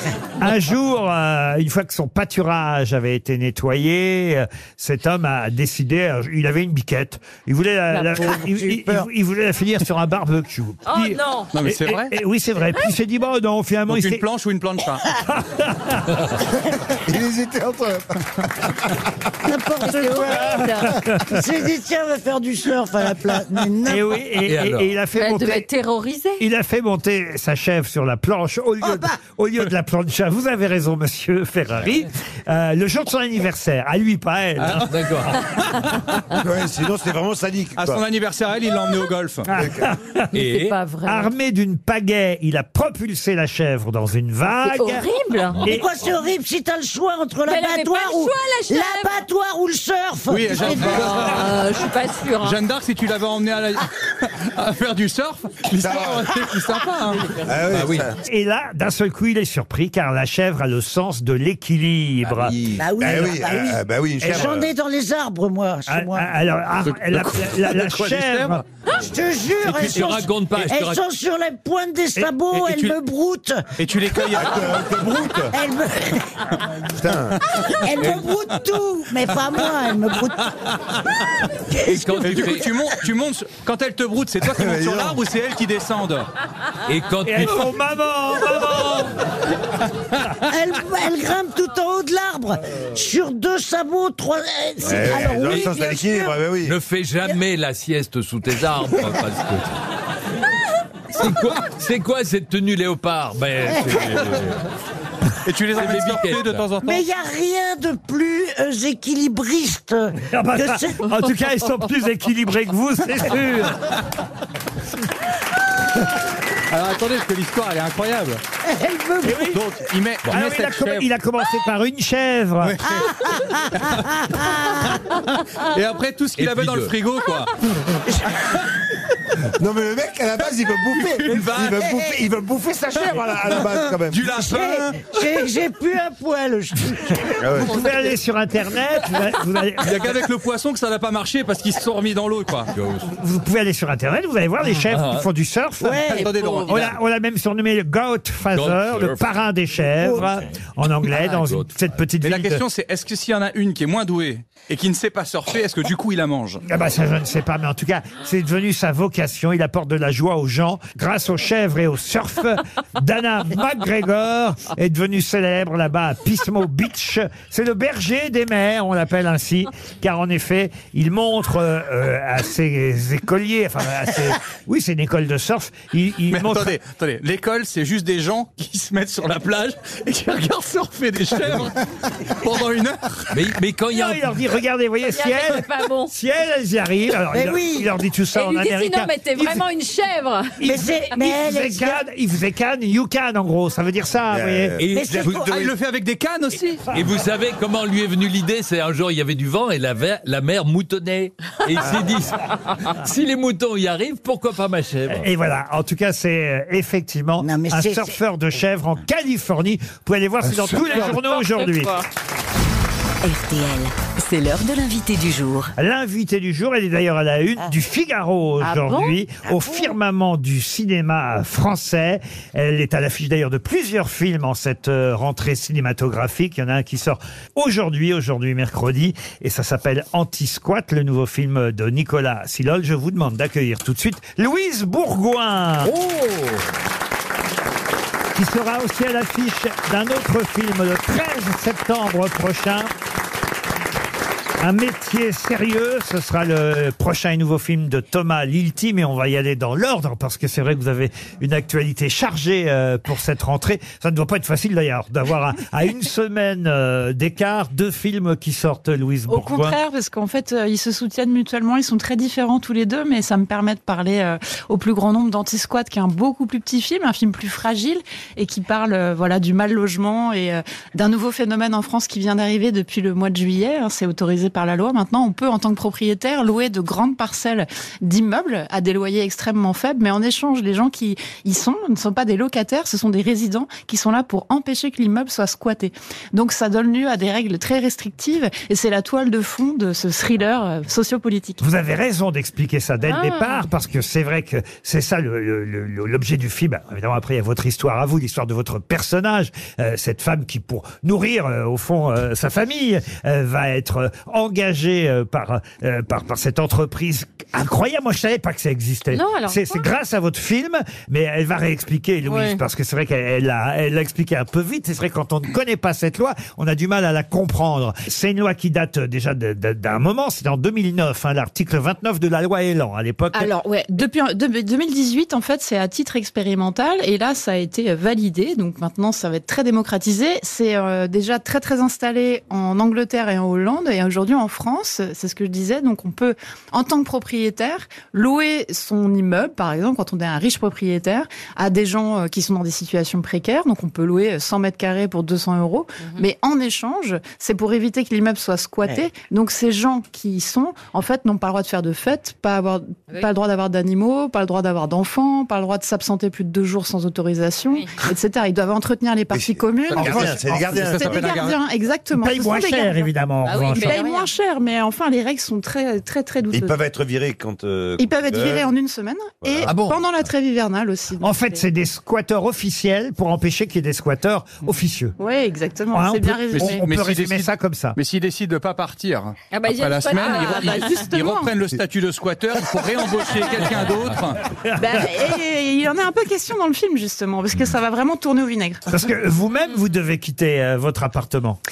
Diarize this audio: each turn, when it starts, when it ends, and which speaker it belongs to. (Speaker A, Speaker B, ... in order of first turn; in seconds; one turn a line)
Speaker A: 0.4-14.2
Speaker B: 8.2-9.1
Speaker C: 10.8-11.5
Speaker D: 11.5-12.1
Speaker D: 13.9-15.0
Speaker A: 15.3-16.1
Speaker E: 17.0-18.9
Speaker B: 19.4-20.6
Speaker C: 19.8-20.9
Speaker A: 21.1-21.4
Speaker B: 21.2-24.2
Speaker A: 23.8-25.6
Speaker F: 24.4-24.9
Speaker C: 25.1-26.4
Speaker A: 26.4-34.9
Speaker F: 34.6-35.4
Speaker E: 36.3-38.0
Speaker D: 37.8-39.5
Speaker A: 39.5-40.3
Speaker E: 39.5-39.9
Speaker F: 40.3-40.8
Speaker C: 40.3-41.3
Speaker A: 41.0-45.1
Speaker C: 44.6-45.6
Speaker A: 45.6-45.9
Speaker B: 45.6-51.4
Speaker C: 47.5-49.2
Speaker D: 50.3-51.5
Speaker C: 50.7-52.6
Speaker D: 52.4-57.4
Speaker E: 55.8-56.3
Speaker E: 57.3-58.2
Speaker F: 57.7-58.0
Speaker A: 58.2-62.5
Speaker F: 62.3-62.8
Speaker B: 62.8-66.3
Speaker E: 63.0-64.7
Speaker A: 65.9-68.6
Speaker D: 66.9-68.6
Speaker B: 69.0-73.7
Speaker F: 69.6-71.0
Speaker D: 72.5-73.0
Speaker D: 73.8-74.8
Speaker E: 74.2-75.5
Speaker B: 75.5-76.4
Speaker E: 76.9-77.5
Speaker B: 77.7-80.4
Speaker B: 81.7-82.2
Speaker F: 81.8-82.7
Speaker D: 82.2-86.3
Speaker E: 84.5-85.2
Speaker F: 86.9-87.7
Speaker A: 87.2-89.1
Speaker B: 90.4-96.4
Speaker E: 94.8-96.8
Speaker F: 96.6-99.7
Speaker F: 101.1-104.6
Speaker B: 103.7-104.1
Speaker D: 105.4-107.0
Speaker F: 105.7-106.7
Speaker B: 106.8-111.1
Speaker A: 110.3-113.9
Speaker D: 116.7-118.4
Speaker B: 118.7-119.5
Speaker A: 119.2-119.6
Speaker D: 119.4-121.1
Speaker A: 120.3-122.8
Speaker B: 122.8-125.0
Speaker D: 125.6-127.5
Speaker F: 126.4-126.9
Speaker B: 128.1-128.4
Speaker E: 129.6-134.8
Speaker D: 130.9-131.8
Speaker B: 131.8-132.1
Speaker D: 134.1-134.9
Speaker B: 134.3-137.4
Speaker E: 137.4-137.8
Speaker A: 137.6-140.1
Speaker D: 139.8-142.7
Speaker F: 142.7-143.1
Speaker A: 143.1-152.6
Speaker F: 144.9-145.2
Speaker B: 145.8-146.3
Speaker D: 146.1-147.0
Speaker C: 146.2-146.8
Speaker F: 148.5-149.2
Speaker B: 150.0-150.3
Speaker F: 151.1-151.8
Speaker D: 152.2-156.6
Speaker A: 156.6-176.7
Speaker D: 176.3-181.8
Speaker D: 182.3-183.3
Speaker F: 183.3-184.3
Speaker A: 183.9-189.6
Speaker C: 185.0-186.1
Speaker B: 187.3-187.9
Speaker C: 188.3-190.6
Speaker A: 190.6-194.7
Speaker B: 190.6-192.0
Speaker E: 194.3-195.7
Speaker F: 194.8-195.4
Speaker B: 194.9-195.6
Speaker D: 195.4-196.9
Speaker F: 196.9-205.2
Speaker A: 205.1-211.9
Speaker B: 207.4-208.2
Speaker E: 210.5-210.9
Speaker C: 210.9-212.0
Speaker G: 213.2-215.7
Speaker A: 215.8-235.9
Speaker G: 218.7-219.1
Speaker F: 235.8-236.6
Speaker A: 238.3-242.9
Speaker A: 244.6-259.8
Speaker H: 259.3-291.6
Speaker A: 291.6-323.5
Speaker C: 293.1-293.6
Speaker C: 309.1-309.9
Speaker C: 312.3-312.6
Speaker H: 323.3-363.1
Speaker E: 359.3-361.3
Speaker D: 359.9-361.6
Speaker A: 359.9-360.7
Speaker A: 362.1-364.0
Speaker C: 363.4-364.3
Speaker H: 363.6-366.8
Speaker E: 366.5-368.7
Speaker H: 368.0-371.6
Speaker E: 369.4-369.7
Speaker D: 369.7-370.0
Speaker A: 371.2-375.1
Speaker H: 375.2-376.8
Speaker A: 375.9-378.0
Speaker D: 376.5-384.4
Speaker C: 379.5-381.1
Speaker H: 380.4-381.5
Speaker A: 384.6-385.1
Speaker H: 384.8-388.8
Speaker A: 388.9-391.6